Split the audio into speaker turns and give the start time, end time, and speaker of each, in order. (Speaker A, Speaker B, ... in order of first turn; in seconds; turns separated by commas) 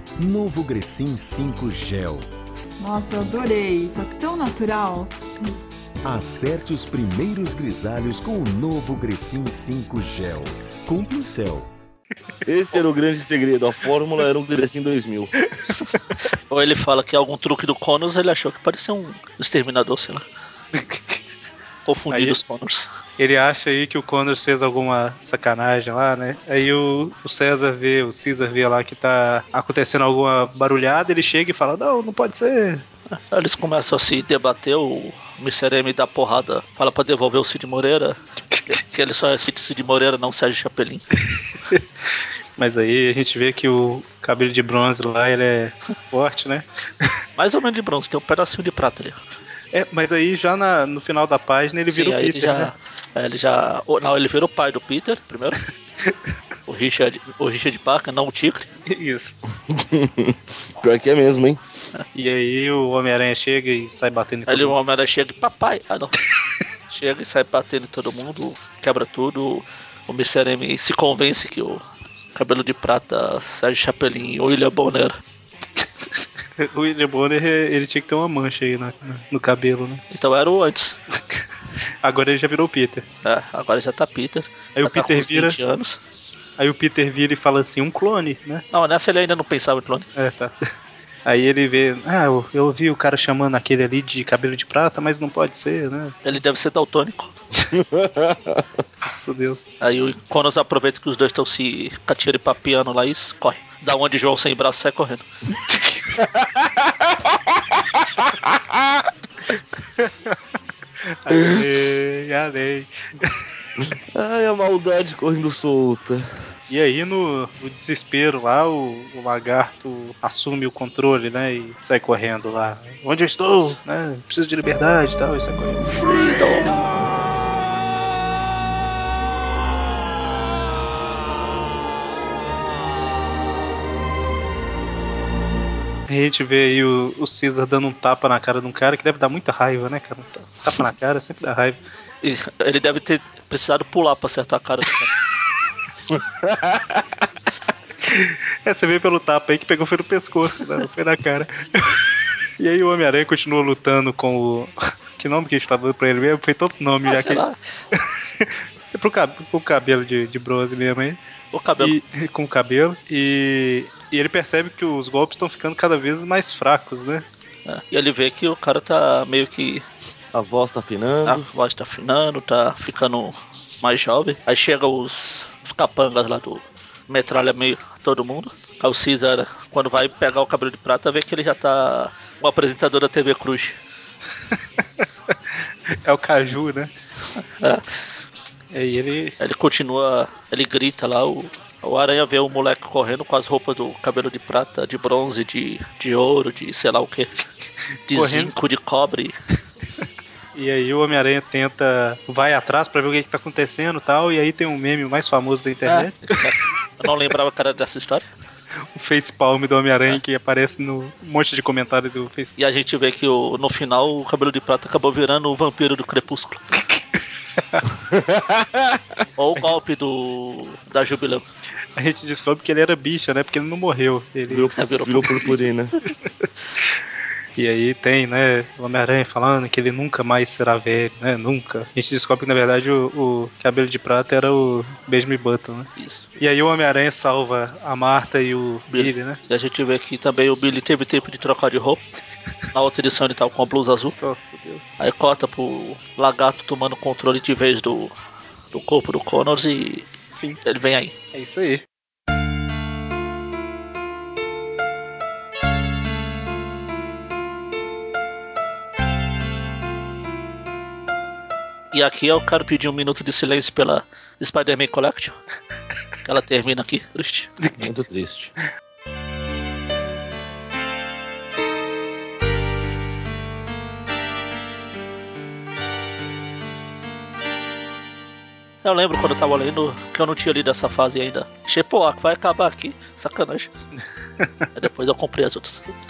Speaker A: 0.2-2.3, Speaker B: 2.8-5.6, Speaker A: 6.0-11.7, Speaker C: 12.4-15.3, Speaker D: 15.5-16.0, Speaker E: 16.5-20.2, Speaker D: 20.8-21.2, Speaker E: 21.9-22.9, Speaker D: 22.1-22.4, Speaker D: 23.2-32.8, Speaker E: 33.1-41.0, Speaker D: 42.6-47.1, Speaker E: 47.4-49.2, Speaker D: 49.7-52.7, Speaker E: 51.9-55.6, Speaker E: 56.7-58.7, Speaker D: 58.9-59.4, Speaker C: 59.7-61.6, Speaker D: 62.1-64.8, Speaker E: 64.5-66.2, Speaker E: 66.9-71.8, Speaker E: 72.3-75.2, Speaker D: 76.6-80.0, Speaker E: 80.1-81.0, Speaker D: 82.0-83.0, Speaker E: 83.2-86.0, Speaker D: 84.8-85.6, Speaker D: 86.6-88.6, Speaker E: 88.7-90.1, Speaker D: 90.2-90.5, Speaker D: 91.3-96.1, Speaker E: 96.2-97.3, Speaker C: 97.7-98.7, Speaker D: 99.0-99.7, Speaker E: 99.8-105.2, Speaker D: 105.7-106.0, Speaker C: 106.2-108.9, Speaker D: 110.0-110.3, Speaker D: 111.1-113.4, Speaker C: 113.9-116.3, Speaker D: 116.7-126.0, Speaker E: 125.9-126.9, Speaker D: 136.1-141.8, Speaker E: 142.2-145.1, Speaker C: 146.1-147.0, Speaker D: 148.1-152.1, Speaker D: 152.6-161.2, Speaker E: 157.1-157.6, Speaker E: 161.5-162.0, Speaker D: 161.8-167.2, Speaker E: 167.7-169.8, Speaker C: 170.3-171.4, Speaker E: 171.3-183.8, Speaker D: 185.9-186.9, Speaker E: 187.6-187.8, Speaker D: 188.7-189.3, Speaker E: 189.4-197.4, Speaker E: 198.1-199.4, Speaker D: 198.1-198.5, Speaker D: 200.6-206.5, Speaker E: 205.9-208.2, Speaker D: 208.9-212.5, Speaker E: 212.6-216.6, Speaker C: 217.9-219.0, Speaker E: 219.4-221.4, Speaker D: 222.0-224.7, Speaker C: 224.5-225.9, Speaker E: 224.8-225.7, Speaker D: 227.6-239.4, Speaker E: 236.0-236.2, Speaker E: 238.9-242.0, Speaker E: 242.7-244.1, Speaker D: 244.2-244.9, Speaker E: 245.0-248.1, Speaker E: 248.7-250.1, Speaker E: 250.6-251.1, Speaker D: 251.3-251.8, Speaker E: 261.9-265.4, Speaker E: 266.2-267.5, Speaker C: 267.8-268.5, Speaker E: 278.8-283.7, Speaker D: 284.4-284.6, Speaker E: 284.8-285.8